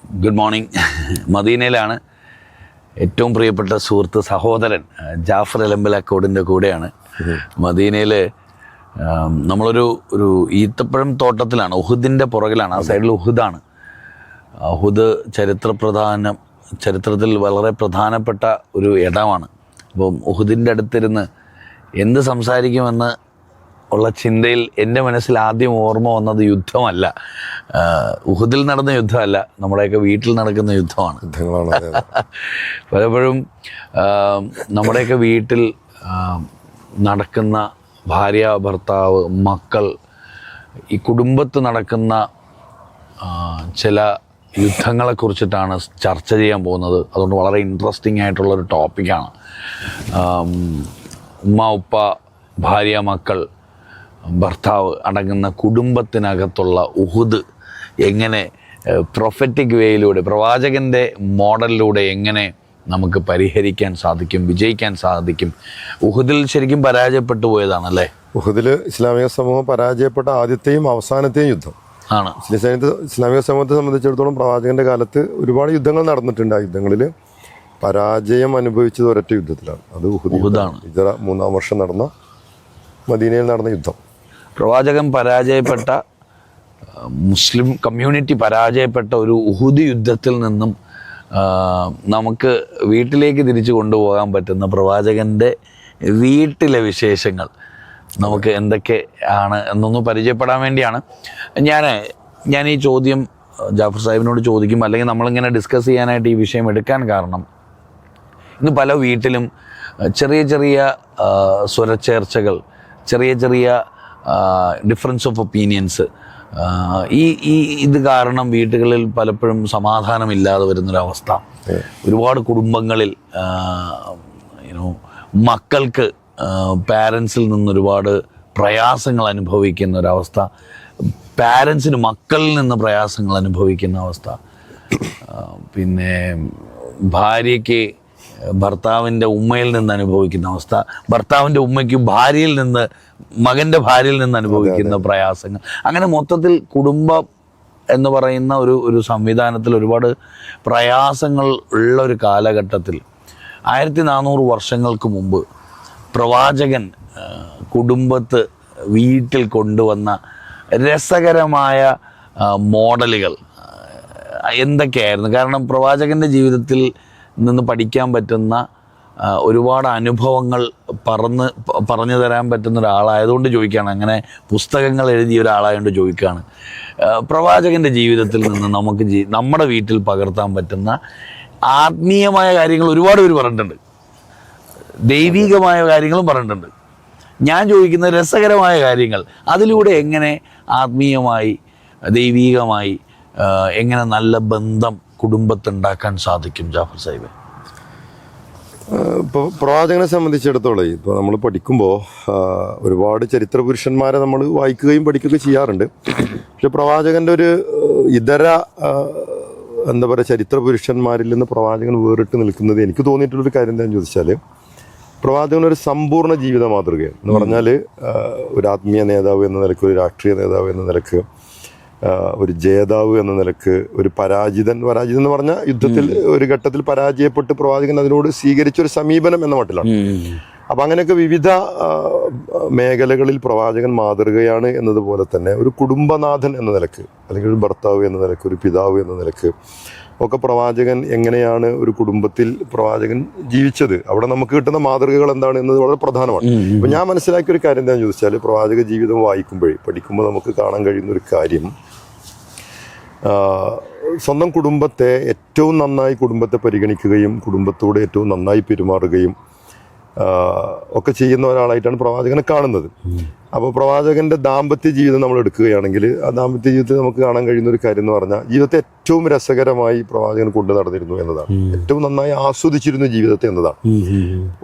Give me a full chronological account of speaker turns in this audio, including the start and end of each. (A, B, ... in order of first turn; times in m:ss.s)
0:00.2-0:00.7 A
0:01.3-0:02.0 A
0:03.0-0:06.9 A
0:07.6-0:08.2 A
0:09.0-0:13.6 A
0:12.8-0:13.0 B
0:14.6-0:21.3 A
0:22.0-0:23.1 A
0:23.9-0:27.1 A
0:27.7-0:31.2 A
0:31.2-0:32.1 B
0:31.8-0:33.4 A
0:33.9-0:36.5 A
0:37.0-0:39.9 A
0:40.9-0:42.2 A
0:43.2-0:49.3 A
0:50.1-0:50.9 A
0:51.5-0:52.1 A
0:52.6-0:53.4 A
0:54.3-0:57.4 A
0:58.0-1:08.1 A
1:08.3-1:11.7 B
1:12.1-1:12.4 A
1:12.4-1:17.1 B
1:17.8-1:22.1 B
1:20.3-1:20.8 A
1:23.1-1:24.0 B
1:24.6-1:26.0 A
1:27.0-1:30.7 A
1:31.3-1:35.5 A
1:36.0-1:37.5 A
1:38.2-1:41.0 A
1:41.6-1:47.4 A
1:48.6-1:49.5 A
1:50.0-2:01.4 A
2:02.0-2:10.5 A
2:11.4-2:14.4 A
2:15.2-2:17.8 A
2:18.6-2:22.9 A
2:23.4-2:27.2 A
2:24.5-2:25.0 B
2:27.9-2:30.1 A
2:30.6-2:33.0 A
2:33.7-2:35.4 A
2:36.1-2:40.2 A
2:40.7-2:43.4 A
2:44.2-2:46.9 A
2:47.4-2:48.6 A
2:49.2-2:56.4 A
2:57.0-3:01.0 A
3:01.7-3:03.8 A
3:05.0-3:06.7 A
3:05.2-3:05.5 B
3:07.4-3:11.6 A
3:12.1-3:17.3 A
3:18.9-3:25.9 B
3:26.6-3:34.4 B
3:35.2-3:41.2 B
3:37.3-3:37.6 A
3:42.0-3:49.9 B
3:45.8-3:46.2 A
3:49.8-3:50.4 A
3:50.7-3:59.5 B
4:00.2-4:11.7 B
4:06.4-4:07.0 A
4:13.2-4:19.3 B
4:20.2-4:22.9 B
4:23.5-4:33.8 B
4:31.5-4:31.8 A
4:33.9-4:34.5 A